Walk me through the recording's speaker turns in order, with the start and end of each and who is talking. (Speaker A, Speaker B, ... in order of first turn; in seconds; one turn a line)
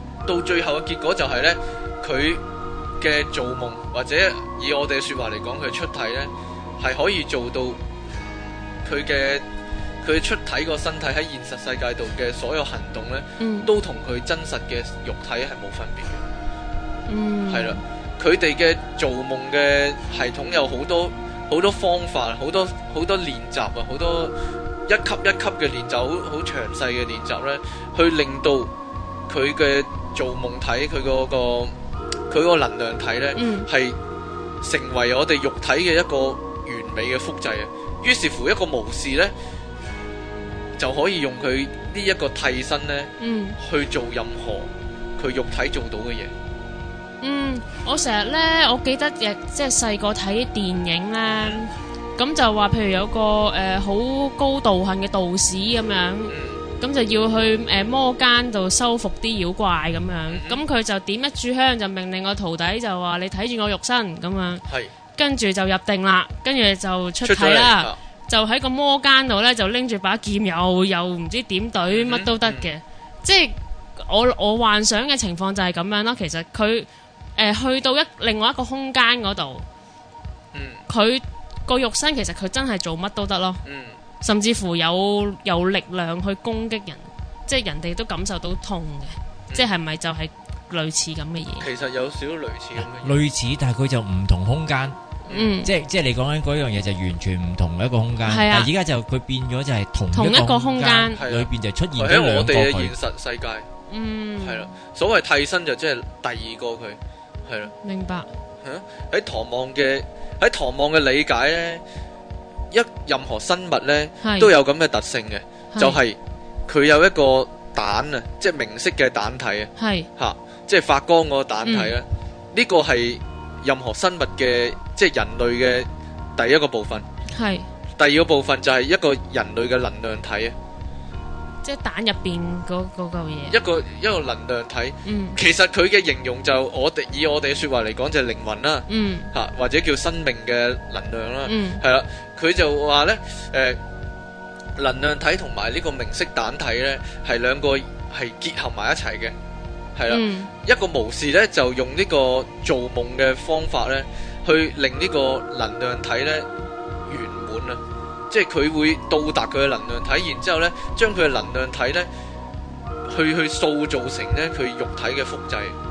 Speaker A: 0.3-2.4
Speaker A: 3.0-7.8
Speaker A: 8.8-9.4
Speaker A: 10.0-16.2
Speaker B: 13.4-13.7
Speaker B: 17.1-17.8
Speaker A: 17.5-24.4
Speaker A: 24.9-28.7
Speaker A: 29.3-31.7
Speaker A: 32.3-34.0
Speaker B: 33.4-33.7
Speaker A: 34.6-39.3
Speaker A: 40.8-46.3
Speaker B: 43.2-43.6
Speaker B: 47.2-64.6
Speaker A: 51.3-51.6
Speaker A: 56.3-56.6
Speaker A: 60.3-60.6
Speaker A: 64.7-64.9
Speaker B: 65.2-79.7
Speaker A: 67.2-68.0
Speaker A: 71.9-72.7
Speaker A: 80.5-80.8
Speaker B: 80.9-83.6
Speaker A: 83.7-84.0
Speaker B: 84.2-91.7
Speaker A: 91.6-93.2
Speaker C: 92.8-95.0
Speaker A: 95.3-95.6
Speaker B: 95.3-95.7
Speaker C: 95.6-102.9
Speaker B: 98.3-98.7
Speaker B: 100.1-101.2
Speaker A: 101.2-103.7
Speaker B: 103.9-104.7
Speaker A: 104.4-107.7
Speaker B: 107.8-108.3
Speaker A: 108.6-111.8
Speaker A: 112.7-116.2
Speaker B: 114.2-114.5
Speaker A: 116.7-127.1
Speaker B: 119.8-120.1
Speaker B: 121.7-121.9
Speaker B: 127.3-127.7
Speaker A: 128.0-130.6
Speaker B: 131.6-133.6
Speaker A: 133.5-143.8
Speaker B: 135.1-135.4
Speaker B: 138.9-139.3
Speaker B: 141.5-141.8
Speaker A: 144.8-149.3
Speaker A: 150.0-156.5
Speaker B: 150.1-150.5
Speaker A: 157.1-162.1
Speaker A: 163.1-165.8